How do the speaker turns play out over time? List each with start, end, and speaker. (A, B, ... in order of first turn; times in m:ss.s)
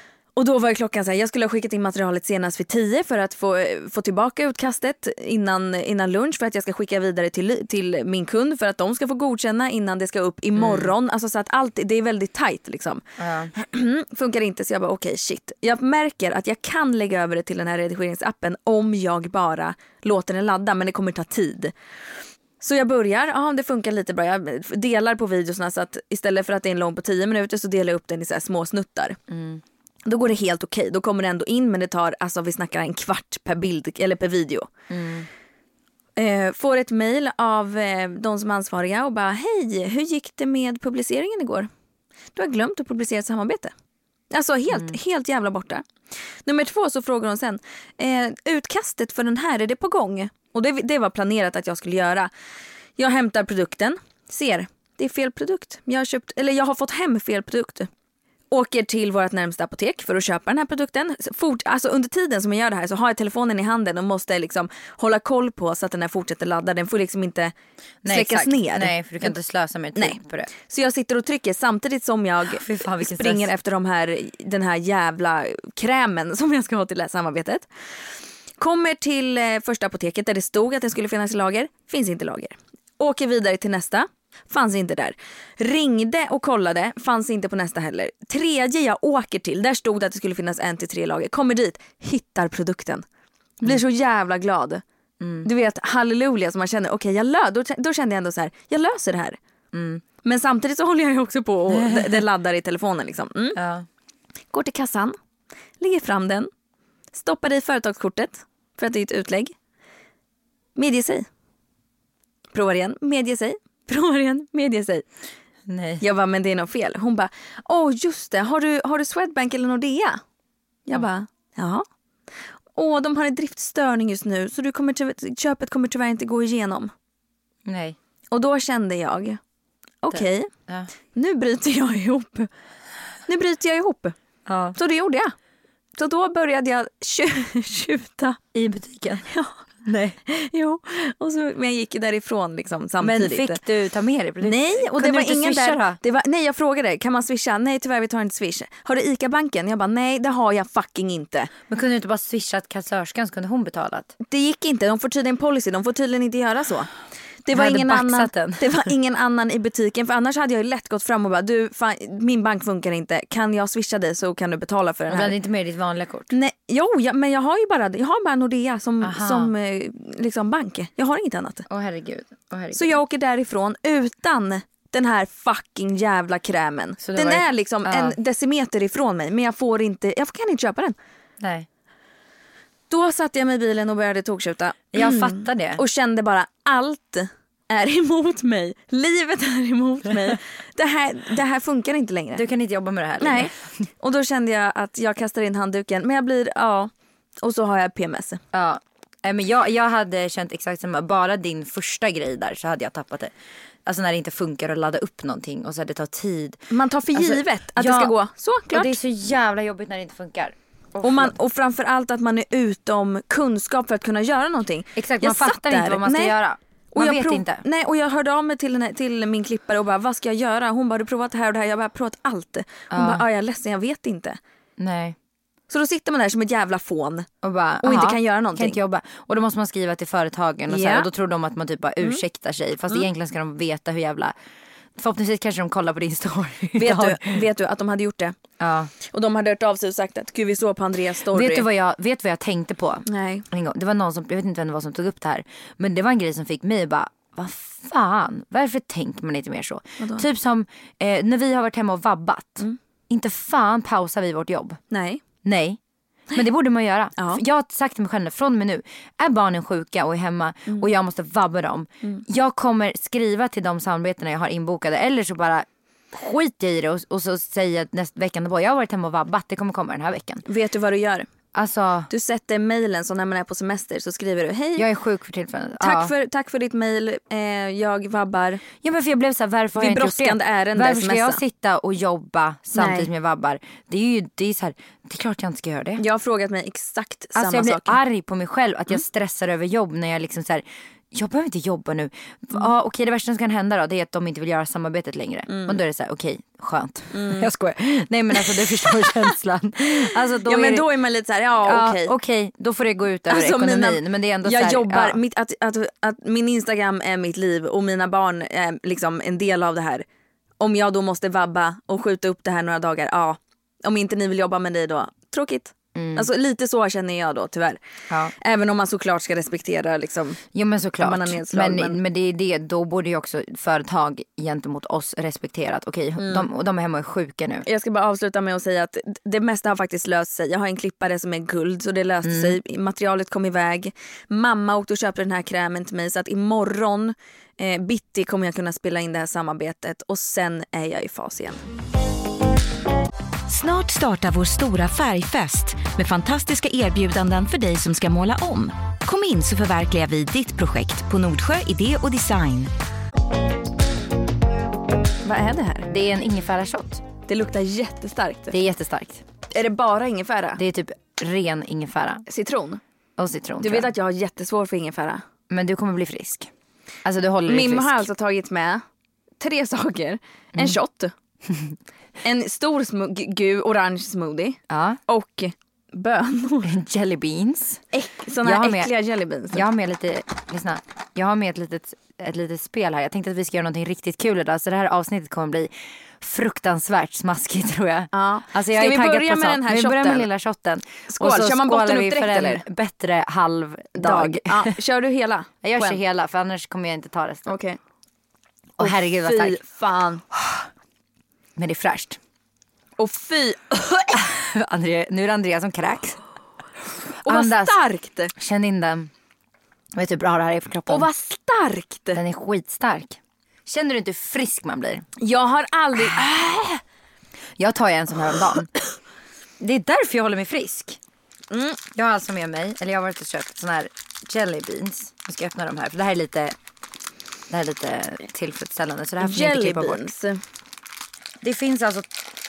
0:00.4-0:21.7 A
0:10.6-0:10.9 B
0:13.2-0:13.5 B
0:22.6-0:29.2 A
0:29.3-0:29.6 B
0:30.0-0:34.7 A
0:34.9-0:35.3 B
0:36.2-0:41.7 A
0:42.3-0:43.7 A
0:44.3-0:45.8 A
0:46.4-0:52.3 A
0:53.0-0:57.9 A
0:58.5-1:07.5 A
1:08.0-1:10.5 B
1:08.0-1:09.3 A
1:09.9-1:17.7 A
1:12.5-1:13.5 B
1:18.6-1:33.0 A
1:33.6-1:34.8 A
1:35.2-1:35.5 B
1:35.4-1:39.4 A
1:39.7-1:40.0 B
1:40.2-1:43.6 A
1:41.7-1:42.2 B
1:43.6-1:43.8 B
1:44.5-1:45.2 A
1:45.8-1:46.5 A
1:47.1-1:49.5 A
1:50.8-1:51.3 A
1:52.5-1:55.0 A
1:55.7-1:56.0 B
1:56.0-2:00.2 A
2:00.9-2:01.8 A
2:02.7-2:06.9 A
2:07.6-2:08.0 B
2:08.3-2:09.4 A
2:10.0-2:10.5 A
2:10.1-2:10.9 B
2:11.1-2:12.5 A
2:13.3-2:14.2 A
2:14.4-2:14.8 B
2:14.7-2:15.3 A
2:16.0-2:18.4 A
2:18.5-2:19.3 B
2:19.3-2:19.6 A
2:19.8-2:20.2 B
2:20.2-2:23.6 A
2:23.0-2:26.0 B
2:24.4-2:31.5 A
2:31.7-2:34.1 B
2:34.2-2:36.9 A
2:37.4-2:45.3 A
2:37.5-2:38.8 B
2:45.1-2:46.3 B
2:46.3-2:51.7 A
2:49.0-2:49.5 B
2:51.7-2:52.9 B
2:52.7-3:01.0 A
2:57.0-2:58.2 B
3:01.4-3:01.7 B
3:02.9-3:12.4 A
3:04.9-3:05.8 B
3:12.3-3:13.5 B
3:13.2-3:16.9 A
3:17.4-3:18.4 A
3:18.5-3:23.3 B
3:23.8-3:28.1 B
3:26.7-3:29.0 A
3:28.7-3:31.3 B
3:31.0-3:36.3 A
3:35.0-3:37.6 B
3:36.9-3:44.4 A
3:42.9-3:43.2 B
3:44.8-3:45.2 B
3:45.7-3:47.3 A
3:47.4-3:54.3 B
3:47.8-3:48.8 A
3:50.7-3:51.1 A
3:55.0-3:57.4 B
3:56.8-3:58.3 A
3:58.6-3:58.9 B
3:59.0-4:01.6 A
4:01.3-4:14.8 B
4:03.0-4:03.4 A
4:10.0-4:10.2 A
4:14.9-4:15.2 A
4:15.4-4:15.8 B
4:16.3-4:30.4 B
4:17.2-4:17.4 A
4:30.4-4:31.3 A
4:31.5-4:32.1 B
4:32.1-4:34.9 A
4:34.8-4:36.1 B
4:35.8-4:38.6 A
4:38.8-4:46.0 B
4:39.8-4:41.4 A
4:42.7-4:43.1 A
4:46.0-4:48.0 A
4:47.3-5:00.9 B
4:55.5-4:55.8 A
4:57.1-4:57.5 A
4:58.5-4:59.2 A
4:59.8-5:02.1 A
5:01.6-5:05.2 B
5:03.3-5:10.0 A
5:10.6-5:17.8 A
5:15.9-5:16.3 B
5:18.3-5:20.4 A
5:20.5-5:27.7 B
5:21.0-5:22.0 A
5:26.2-5:26.5 A
5:27.6-5:41.6 A
5:32.2-5:32.6 B
5:43.5-5:52.7 C
5:55.2-5:55.9 A
5:55.9-5:57.0 B
5:57.3-5:58.6 A
5:58.5-5:59.2 B
5:59.5-6:00.6 A
6:00.6-6:02.2 B
6:02.3-6:02.8 A
6:03.2-6:03.9 B
6:03.6-6:05.2 A
6:05.5-6:06.5 B
6:07.0-6:08.1 B
6:07.4-6:08.8 A
6:09.4-6:11.1 A
6:12.2-6:16.8 A
6:14.7-6:15.0 B
6:16.6-6:17.8 B
6:17.9-6:19.6 A
6:18.4-6:18.9 B
6:19.5-6:34.8 B
6:28.1-6:30.3 A
6:31.1-6:32.6 A
6:33.9-6:36.0 A
6:35.6-6:37.5 B
6:37.5-6:37.8 A
6:38.8-6:39.6 B
6:38.8-6:40.2 A
6:41.6-6:42.2 B
6:43.0-6:44.3 A
6:44.1-6:46.2 B
6:47.2-6:48.3 A
6:47.2-6:47.8 B
6:48.3-6:49.1 B
6:49.9-6:51.1 B
6:50.9-6:52.2 A
6:52.1-6:55.0 B
6:55.2-6:56.8 A
6:57.6-6:58.7 B
6:59.6-7:01.0 B
7:01.5-7:01.8 A
7:01.9-7:06.6 B
7:07.5-7:10.0 B
7:09.2-7:10.4 A
7:11.4-7:12.1 B